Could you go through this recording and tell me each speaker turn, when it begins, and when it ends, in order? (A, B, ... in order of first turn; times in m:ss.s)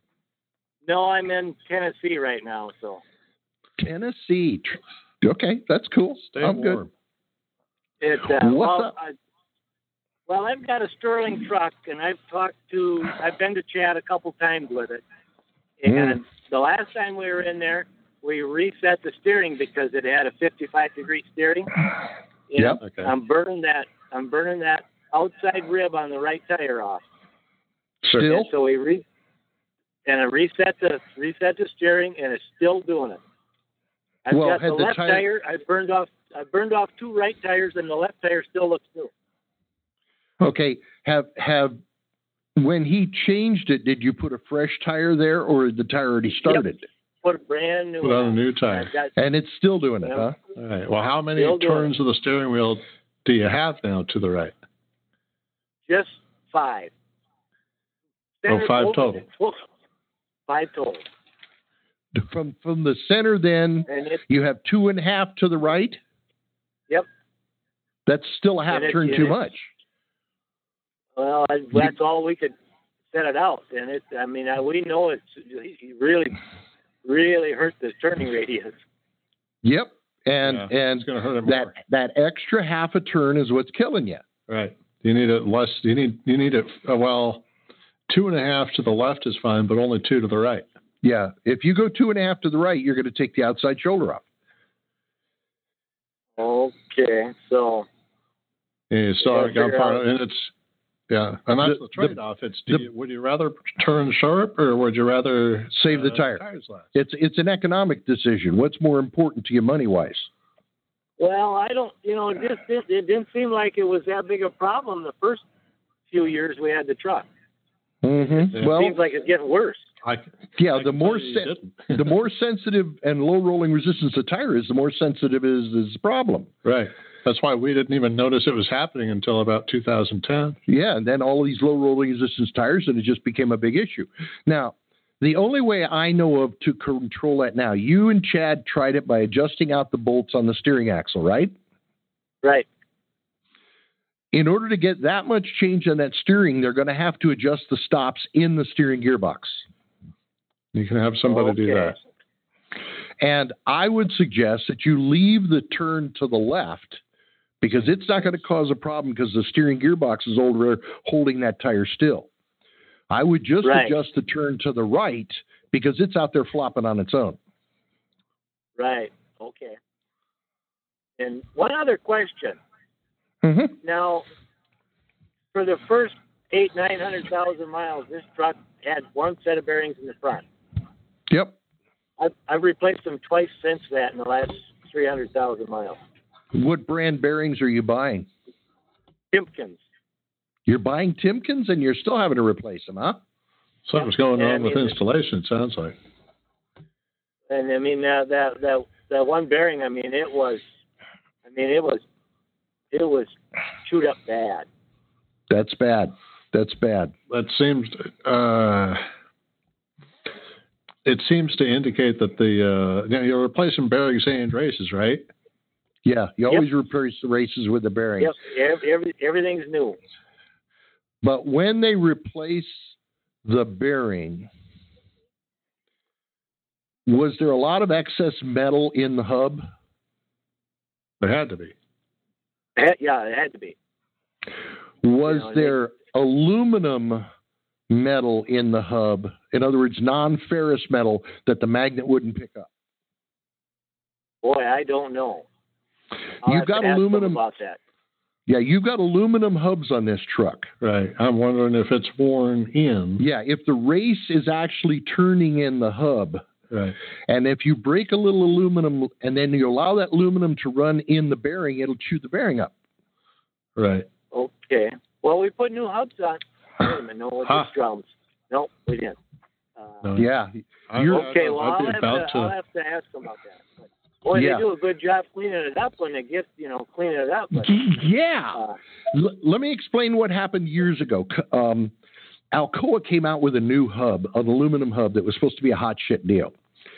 0:00.8-0:03.0 A
0:03.8-0:06.8 B
0:06.3-0:06.9 C
0:08.0-0:09.2 A
0:08.3-0:09.0 B
0:10.3-0:15.0 A
0:15.8-0:21.7 A
0:15.9-0:16.2 B
0:22.5-0:27.0 A
0:22.6-0:22.8 B
0:22.8-0:23.1 C
0:28.0-0:28.5 B
0:28.2-0:29.0 A
0:30.1-0:33.2 A
0:34.3-0:39.1 A
0:34.3-0:35.3 B
0:40.4-0:41.8 B
0:42.6-0:46.9 B
0:47.2-0:49.1 A
0:48.0-0:48.9 C
0:49.2-0:50.4 B
0:50.6-0:54.5 C
0:51.4-0:51.9 A
0:55.9-0:56.9 A
0:58.4-0:59.6 A
0:58.5-0:59.2 C
1:00.5-1:01.1 A
1:02.1-1:06.0 B
1:03.9-1:04.2 A
1:08.1-1:09.7 B
1:08.7-1:09.5 A
1:11.2-1:12.5 A
1:13.1-1:16.4 A
1:17.0-1:18.8 A
1:19.6-1:24.2 B
1:20.4-1:21.7 C
1:24.5-1:27.4 C
1:28.1-1:30.6 C
1:31.0-1:34.2 B
1:36.4-1:37.9 A
1:38.9-1:40.5 C
1:39.2-1:40.0 A
1:41.1-1:46.9 C
1:41.6-1:42.2 B
1:45.7-1:46.4 B
1:46.9-1:50.3 B
1:51.2-1:55.4 A
1:56.1-1:57.3 A
1:58.0-1:59.0 B
1:58.3-1:59.9 A
2:00.0-2:02.1 C
2:00.6-2:06.5 B
2:06.6-2:10.6 C
2:10.7-2:21.5 B
2:24.3-2:29.6 B
2:30.7-2:32.0 C
2:31.3-2:32.0 A
2:33.2-2:37.0 B
2:37.6-2:42.3 B
2:43.1-2:47.4 B
2:43.6-2:43.9 A
2:48.8-2:49.8 A
2:51.2-2:52.6 A
2:53.4-2:53.8 B
2:53.8-2:54.2 A
2:55.5-3:00.4 A
3:01.3-3:01.6 B
3:02.2-3:06.0 A
3:06.5-3:08.3 B
3:09.3-3:09.8 A
3:10.7-3:13.2 B
3:13.9-3:16.0 C
3:14.0-3:15.0 A
3:17.5-3:20.6 A
3:21.4-3:22.0 A
3:22.9-3:23.3 A
3:23.8-3:24.7 A
3:25.5-3:27.1 B
3:27.3-3:29.0 C
3:31.0-3:35.3 C
3:36.0-3:38.3 B
3:38.2-3:40.0 A
3:41.2-3:42.9 B
3:43.4-3:44.5 B
3:47.1-3:49.7 B
3:51.2-3:51.7 C
3:52.8-3:53.8 A
3:55.0-3:57.3 B
3:55.3-3:55.8 A
3:57.9-4:02.7 B
4:04.4-4:05.5 A
4:06.4-4:07.8 A
4:06.4-4:07.4 B
4:08.5-4:10.7 B
4:10.8-4:13.2 C
4:13.2-4:16.5 B
4:16.7-4:17.0 C
4:17.3-4:22.7 B
4:23.8-4:24.1 C
4:24.3-4:29.2 A
4:30.0-4:30.3 C
4:30.2-4:31.3 B
4:30.9-4:32.5 C
4:31.1-4:37.8 A
4:34.3-4:34.6 B
4:37.5-4:38.6 B
4:39.1-4:41.9 B
4:42.5-4:46.5 B